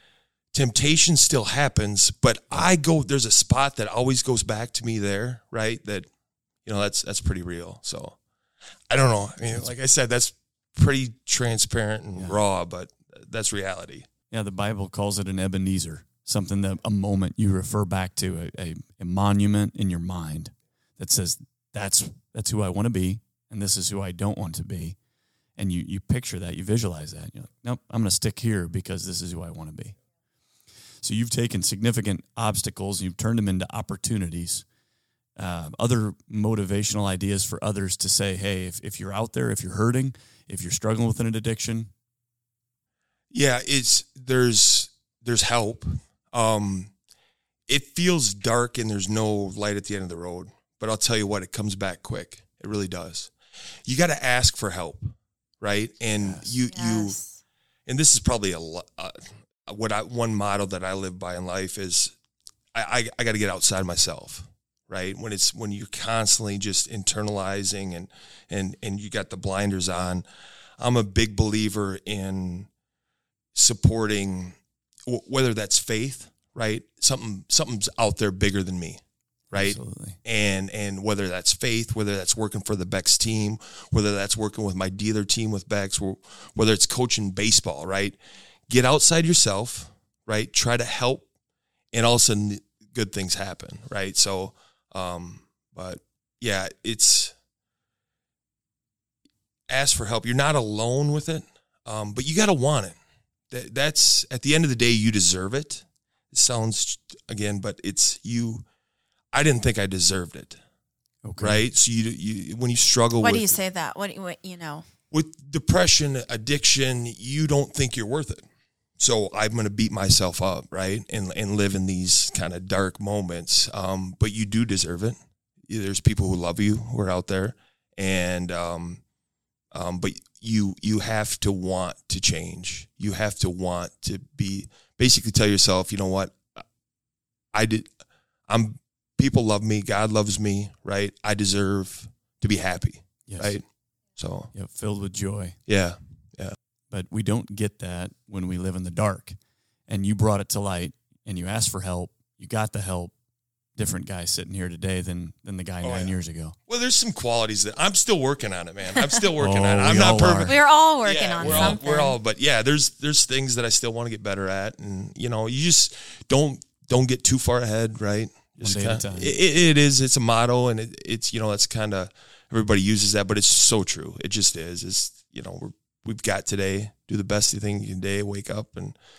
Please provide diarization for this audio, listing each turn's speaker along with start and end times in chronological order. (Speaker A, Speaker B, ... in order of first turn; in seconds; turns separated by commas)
Speaker A: 0.5-6.1, Speaker A: 6.6-8.2, Speaker A: 8.9-14.1, Speaker B: 14.3-24.9, Speaker B: 25.6-29.9, Speaker B: 31.0-34.6, Speaker B: 35.4-41.9, Speaker A: 43.3-46.9, Speaker A: 47.7-53.3, Speaker A: 53.8-57.2, Speaker B: 56.1-56.6, Speaker C: 56.7-57.4, Speaker A: 57.9-62.1, Speaker A: 62.7-70.2, Speaker A: 70.8-72.7, Speaker A: 73.5-79.0, Speaker B: 79.5-80.2, Speaker A: 79.5-88.2, Speaker A: 88.7-91.2, Speaker A: 91.9-97.3, Speaker A: 99.7-103.0, Speaker A: 103.5-108.6, Speaker A: 109.3-110.6, Speaker B: 111.2-111.6, Speaker A: 111.4-113.5, Speaker C: 113.2-114.8, Speaker A: 115.1-118.4, Speaker A: 119.0-129.0, Speaker A: 129.7-136.6, Speaker A: 137.5-137.9, Speaker A: 138.5-143.6, Speaker B: 143.3-143.6, Speaker A: 144.2-144.5, Speaker B: 144.5-145.6, Speaker A: 145.7-146.5, Speaker B: 146.9-149.3, Speaker B: 149.9-153.1, Speaker B: 153.7-156.6, Speaker A: 155.8-156.1, Speaker A: 156.7-178.9, Speaker B: 159.4-160.6, Speaker C: 160.5-162.2, Speaker B: 161.4-161.8, Speaker B: 168.6-169.3